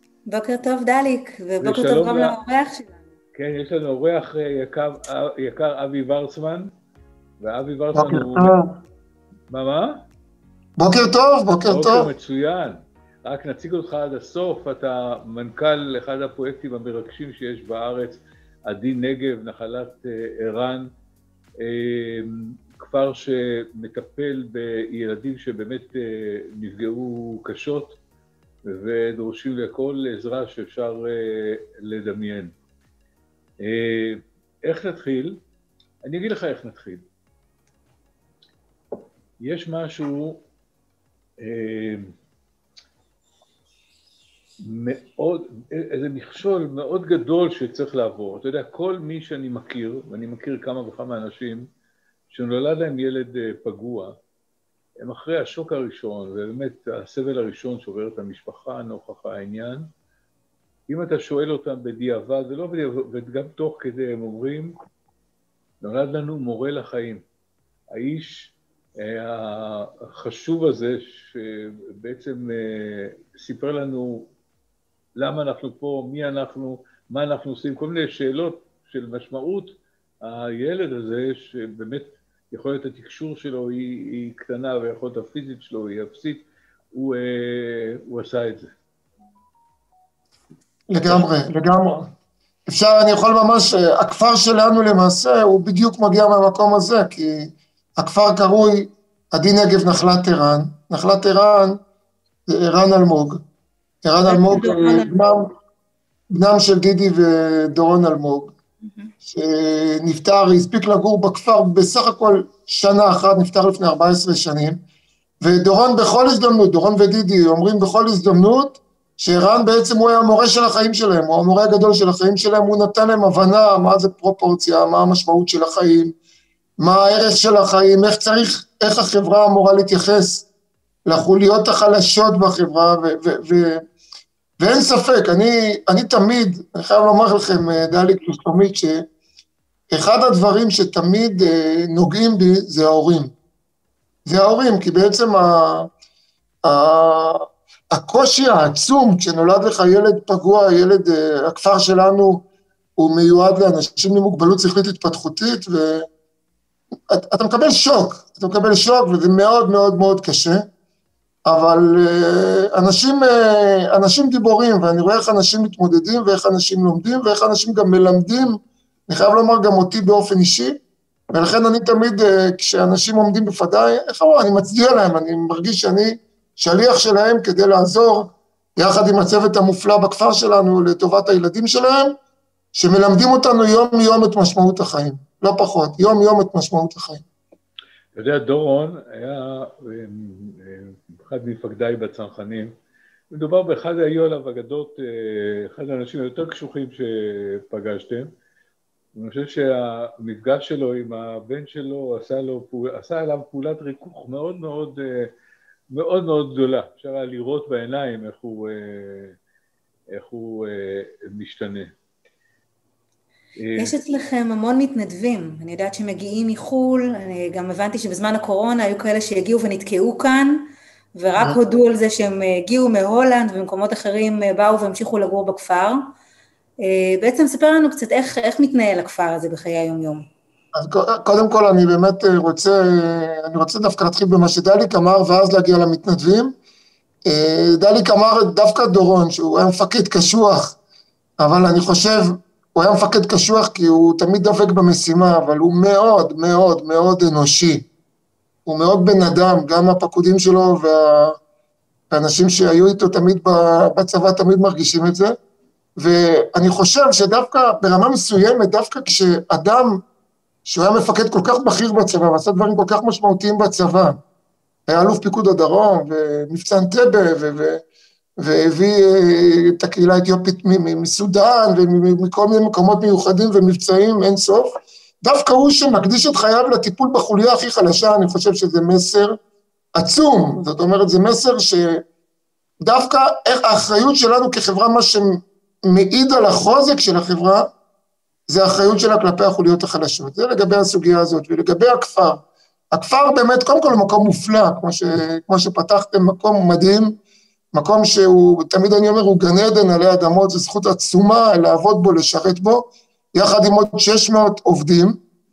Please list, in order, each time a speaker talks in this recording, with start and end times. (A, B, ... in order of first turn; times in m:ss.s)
0:00.3-0:03.0 A
0:01.6-0:02.4 B
0:03.4-0:06.7 B
0:07.4-0:08.5 B
0:08.0-0:08.8 C
0:09.5-0:10.0 B
0:10.8-0:12.1 C
0:11.7-0:20.9 B
0:21.6-0:28.0 B
0:28.7-0:32.5 B
0:33.6-0:35.4 B
0:36.0-0:37.0 B
0:39.4-0:40.4 B
0:41.4-0:42.1 B
0:44.6-0:51.7 B
0:52.3-0:54.2 B
0:55.0-0:59.9 B
1:00.9-1:04.7 B
1:05.8-1:07.2 B
1:07.9-1:14.3 B
1:15.2-1:28.7 B
1:30.9-1:32.1 C
1:32.7-1:41.8 C
1:42.5-1:43.4 C
1:44.0-1:45.5 C
1:44.3-1:45.1 A
1:46.3-1:48.6 C
1:48.8-1:49.1 A
1:49.2-1:54.8 C
1:55.4-2:06.2 C
2:06.8-2:10.5 C
2:11.1-2:13.8 C
2:14.6-2:19.0 C
2:19.9-2:23.3 C
2:24.3-2:25.9 C
2:26.6-2:32.4 C
2:33.0-2:36.1 C
2:37.1-2:40.6 C
2:41.4-2:50.8 C
2:51.3-3:02.2 C
3:02.7-3:07.2 C
3:08.2-3:12.7 B
3:13.3-3:18.3 B
3:19.2-3:25.3 B
3:25.9-3:29.4 B
3:30.1-3:31.9 B
3:33.6-3:34.0 B
3:33.8-3:46.0 A
3:46.8-3:50.2 A
3:50.8-3:56.6 C
3:57.3-4:00.8 C
4:01.4-4:07.9 C
4:08.7-4:11.4 C
4:12.1-4:15.3 C
4:16.0-4:20.0 C
4:20.6-4:24.2 C
4:24.9-4:27.8 C
4:28.4-4:39.4 C
4:40.0-4:42.0 C
4:42.8-4:47.7 C
4:48.5-4:57.2 C
4:57.7-5:05.2 C